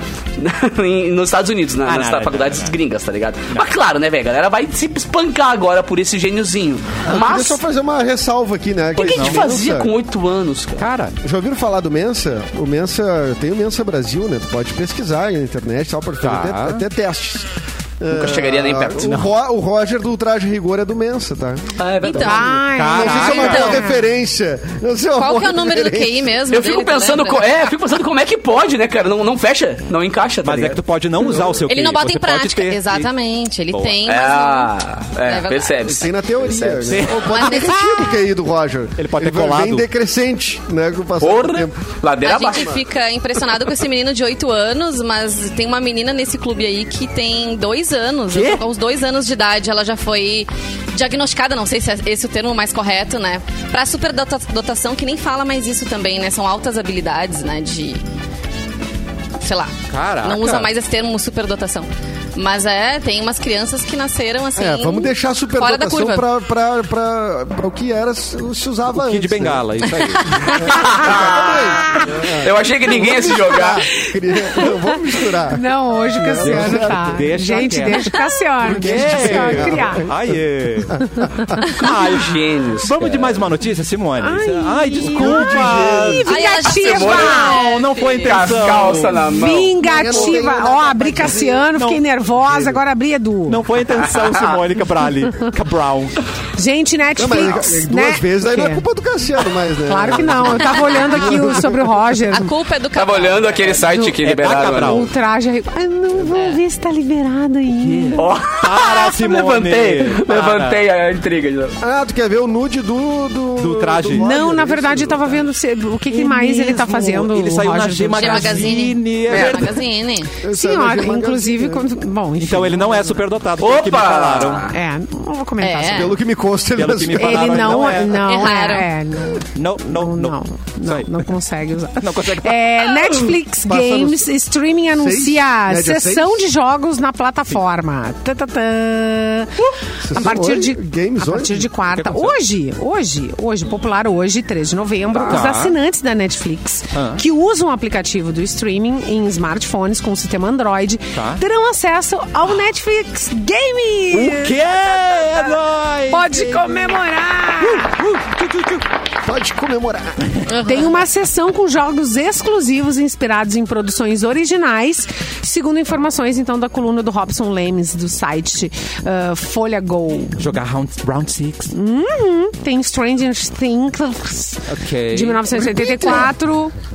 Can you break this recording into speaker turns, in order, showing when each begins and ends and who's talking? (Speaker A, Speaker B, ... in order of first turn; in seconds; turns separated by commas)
Speaker A: 0.4-7.6, Speaker B: 1.8-2.7, Speaker C: 7.0-9.9, Speaker A: 8.9-10.9, Speaker B: 9.0-9.4, Speaker B: 10.8-11.2, Speaker C: 11.2-26.4, Speaker B: 16.2-16.8, Speaker A: 18.1-19.2, Speaker B: 19.0-19.3, Speaker A: 21.8-22.5, Speaker D: 22.0-23.8, Speaker E: 22.1-24.1, Speaker B: 22.7-23.8, Speaker D: 25.2-27.5, Speaker A: 26.5-30.8, Speaker B: 30.4-33.1, Speaker D: 31.6-34.7, Speaker B: 33.7-34.0, Speaker A: 34.0-37.1, Speaker D: 35.2-36.0, Speaker C: 35.8-41.8, Speaker B: 36.9-38.0, Speaker D: 37.2-38.2, Speaker B: 39.0-39.9, Speaker A: 41.2-42.8, Speaker D: 42.2-58.0, Speaker B: 48.3-48.6, Speaker D: 59.4-66.3, Speaker B: 59.9-60.7, Speaker C: 64.5-69.6, Speaker B: 68.9-70.5, Speaker D: 70.0-70.8, Speaker A: 70.5-73.8, Speaker C: 70.5-77.3, Speaker E: 75.5-80.0, Speaker B: 76.4-86.3, Speaker C: 78.6-81.6, Speaker A: 82.1-83.4, Speaker E: 84.2-87.6, Speaker C: 85.1-86.3, Speaker D: 86.2-88.7, Speaker A: 86.6-90.4, Speaker B: 87.5-89.2, Speaker E: 89.2-93.6, Speaker C: 89.8-91.7, Speaker B: 91.7-92.8, Speaker B: 93.5-96.2, Speaker E: 96.5-98.8, Speaker C: 97.2-102.0, Speaker E: 99.8-102.5, Speaker D: 100.6-101.5, Speaker D: 102.3-104.0, Speaker A: 102.9-105.1, Speaker B: 103.9-105.1, Speaker E: 104.7-108.2, Speaker D: 106.2-106.6, Speaker B: 107.8-110.8, Speaker A: 108.2-111.8, Speaker C: 111.8-115.3, Speaker B: 113.6-114.3, Speaker E: 114.2-118.7, Speaker B: 116.1-119.8, Speaker D: 118.1-120.3, Speaker A: 119.3-119.7, Speaker C: 120.4-121.9, Speaker E: 120.5-123.2, Speaker B: 122.4-124.7, Speaker A: 123.6-124.7, Speaker E: 124.7-126.2, Speaker D: 125.6-126.2, Speaker C: 125.9-128.0, Speaker B: 126.7-128.5, Speaker E: 127.1-139.6, Speaker D: 128.1-128.9, Speaker B: 129.5-131.3, Speaker B: 132.0-133.3, Speaker C: 133.6-134.3, Speaker C: 134.9-136.4, Speaker C: 140.0-141.7, Speaker E: 140.1-155.4, Speaker B: 141.9-142.4, Speaker B: 145.2-145.8, Speaker B: 146.9-147.2, Speaker B: 151.1-151.4, Speaker B: 154.1-156.9, Speaker E: 156.1-158.0, Speaker B: 157.6-158.8, Speaker C: 159.2-160.2, Speaker E: 160.5-170.6, Speaker B: 170.4-171.7, Speaker E: 171.7-176.7, Speaker B: 174.7-176.3